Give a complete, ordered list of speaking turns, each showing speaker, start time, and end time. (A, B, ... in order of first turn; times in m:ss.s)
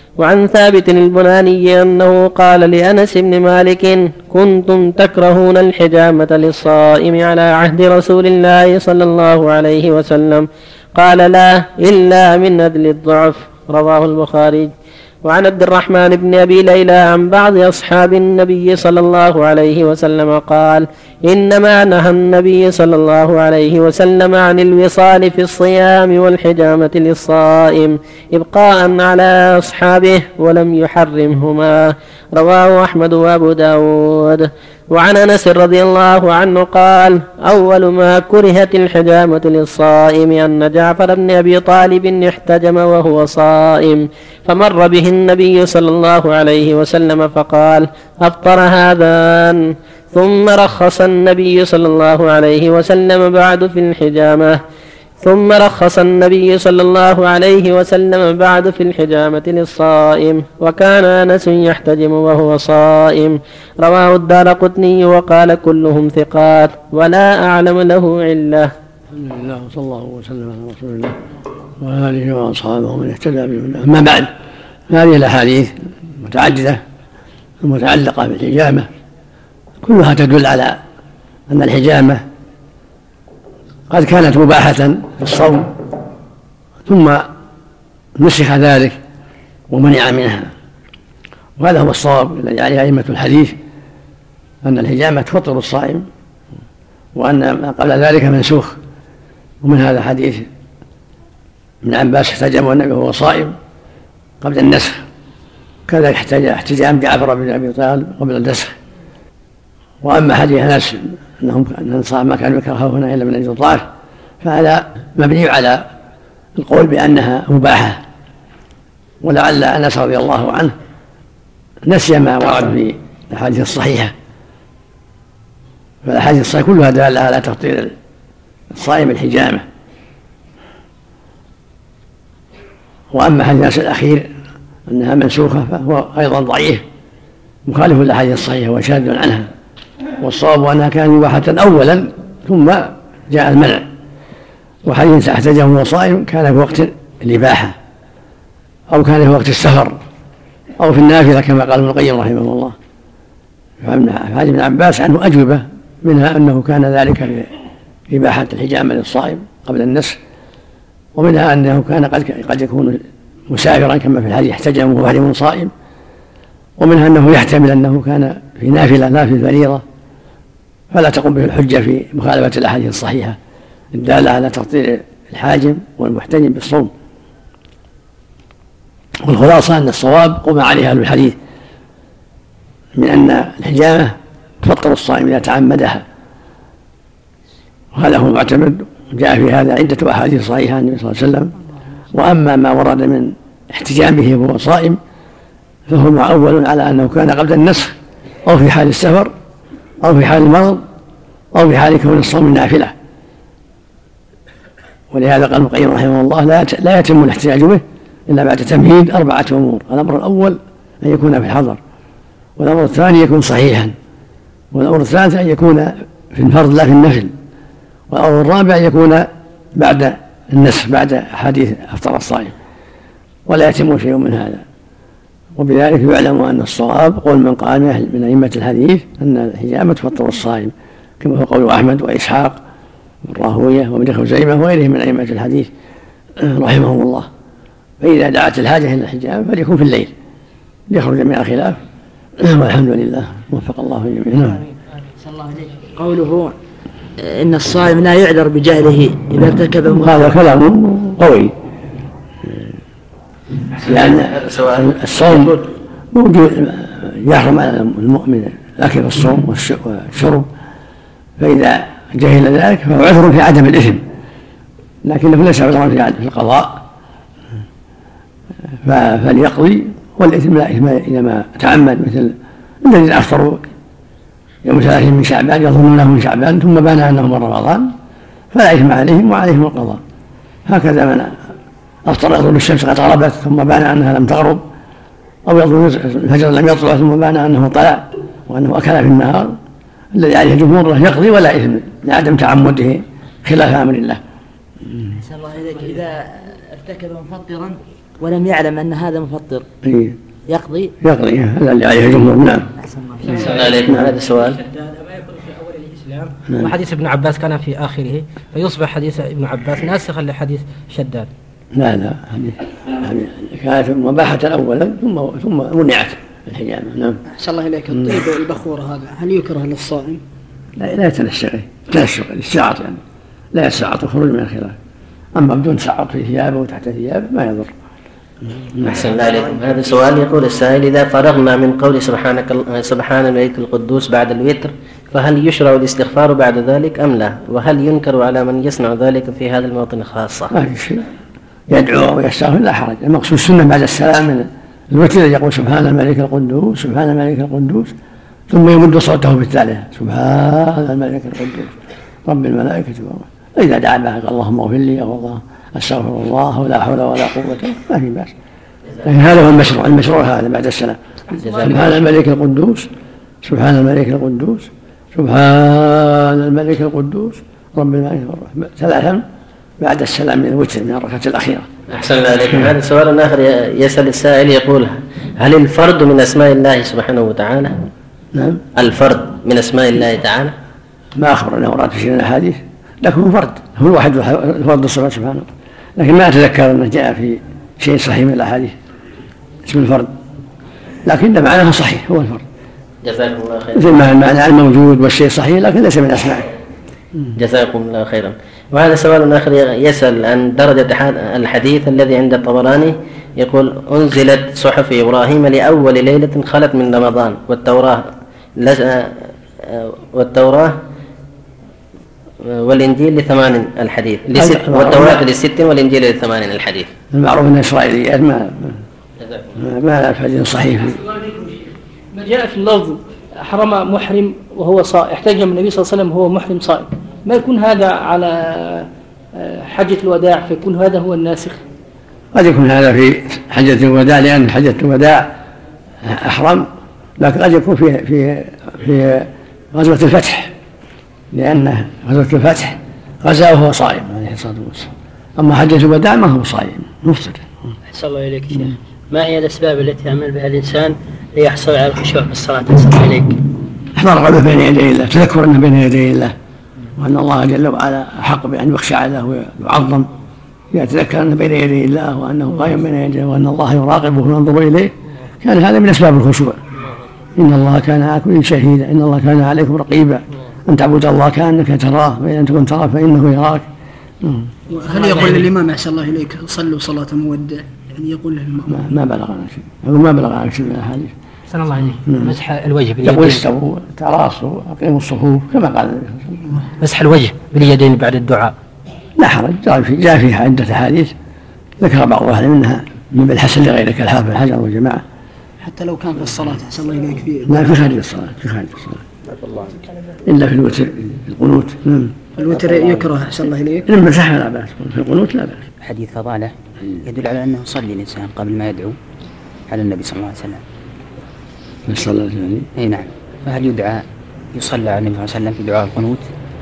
0:00.2-0:14.7 A
0:15.2-0:54.6 A
0:55.2-1:08.7 A
1:09.1-1:11.1 B
1:11.8-1:14.3 B
1:14.9-1:16.8 B
1:17.6-1:18.9 B
1:19.8-1:20.8 B
1:21.5-1:22.2 B
1:23.9-1:25.7 B
1:26.8-1:27.3 B
1:28.2-1:29.0 B
1:29.7-1:30.5 B
1:31.6-1:33.6 B
1:34.6-1:36.1 B
1:37.2-1:38.8 B
1:39.6-1:40.5 B
1:41.8-1:43.6 B
1:44.4-1:45.0 B
1:45.9-1:48.7 B
1:50.0-1:53.9 B
1:54.4-1:55.8 B
1:56.6-1:58.0 B
1:59.2-2:00.7 B
2:01.8-2:04.1 B
2:06.0-2:07.9 B
2:08.7-2:09.6 B
2:13.1-2:14.3 B
2:14.9-2:16.8 B
2:17.7-2:19.5 B
2:20.2-2:23.9 B
2:24.8-2:27.8 B
2:28.9-2:30.0 B
2:30.8-2:32.8 B
2:33.8-2:37.5 B
2:38.1-2:40.2 B
2:41.1-2:45.7 B
2:46.8-2:49.8 B
2:50.9-2:53.4 B
2:53.9-2:56.9 B
2:59.2-3:01.4 B
3:03.0-3:06.0 B
3:07.9-3:11.5 B
3:12.1-3:15.0 B
3:15.9-3:19.3 B
3:20.0-3:20.8 B
3:21.5-3:22.9 B
3:25.1-3:31.8 B
3:32.6-3:33.9 B
3:34.7-3:37.3 B
3:38.1-3:42.6 B
3:43.5-3:44.6 B
3:45.6-3:52.6 B
3:53.2-3:55.7 B
3:56.4-3:57.3 B
3:58.0-4:00.1 B
4:00.9-4:01.8 B
4:02.4-4:04.6 B
4:04.4-4:06.6 C
4:07.2-4:10.3 C
4:09.9-4:11.6 B
4:13.8-4:20.5 B
4:13.8-4:15.5 D
4:21.4-4:24.0 B
4:25.0-4:26.8 B
4:28.8-4:33.6 B
4:34.6-4:37.9 B
4:38.5-4:40.0 B
4:40.6-4:41.4 B
4:42.0-4:44.6 B
4:45.4-4:49.6 B
4:50.1-4:54.2 B
4:55.1-4:59.7 C
4:59.8-5:00.2 B
5:01.0-5:02.7 B
5:02.8-5:03.6 C
5:03.4-5:04.0 E
5:03.5-5:04.6 D
5:03.8-5:04.2 B
5:04.7-5:11.3 E
5:11.7-5:17.2 B
5:17.3-5:20.2 F
5:20.8-5:23.0 B
5:23.5-5:24.8 B
5:25.3-5:27.7 B
5:28.6-5:29.1 B
5:28.8-5:40.5 D
5:40.5-5:41.0 B
5:41.7-5:47.9 B
5:48.5-5:58.3 B
5:59.0-6:02.9 B
6:03.4-6:09.2 B
6:09.8-6:11.7 B
6:11.9-6:17.7 D
6:18.3-6:18.6 B
6:18.8-6:20.5 D
6:21.2-6:28.7 B
6:29.6-6:30.1 B
6:31.0-6:32.4 B
6:33.0-6:34.0 D
6:33.7-6:36.5 B
6:37.4-6:48.0 D
6:48.6-6:50.7 D
6:52.6-6:56.9 D
6:54.3-6:55.3 B
6:57.1-6:58.8 B
6:59.6-7:01.0 B
7:01.0-7:11.6 G
7:12.3-7:15.3 B
7:16.0-7:20.5 B
7:21.3-7:27.5 B
7:27.9-7:33.3 H
7:33.9-7:36.3 B
7:37.0-7:40.1 B
7:40.7-7:46.6 B
7:47.3-7:53.6 B
7:54.2-7:54.5 B
7:54.7-7:58.9 F
7:55.0-7:55.4 I
7:58.7-8:01.1 B
8:02.0-8:02.4 B
8:02.1-8:03.4 I
8:03.0-8:06.5 B
8:06.8-8:08.5 I
8:09.2-8:11.1 B
8:11.8-8:15.0 B
8:15.6-8:17.9 F
8:17.4-8:19.0 B
8:20.2-8:22.2 B
8:22.4-8:23.9 F
8:23.8-8:25.6 B
8:25.8-8:29.0 I
8:29.7-8:30.6 I
8:31.9-8:32.7 B
8:32.8-8:36.3 I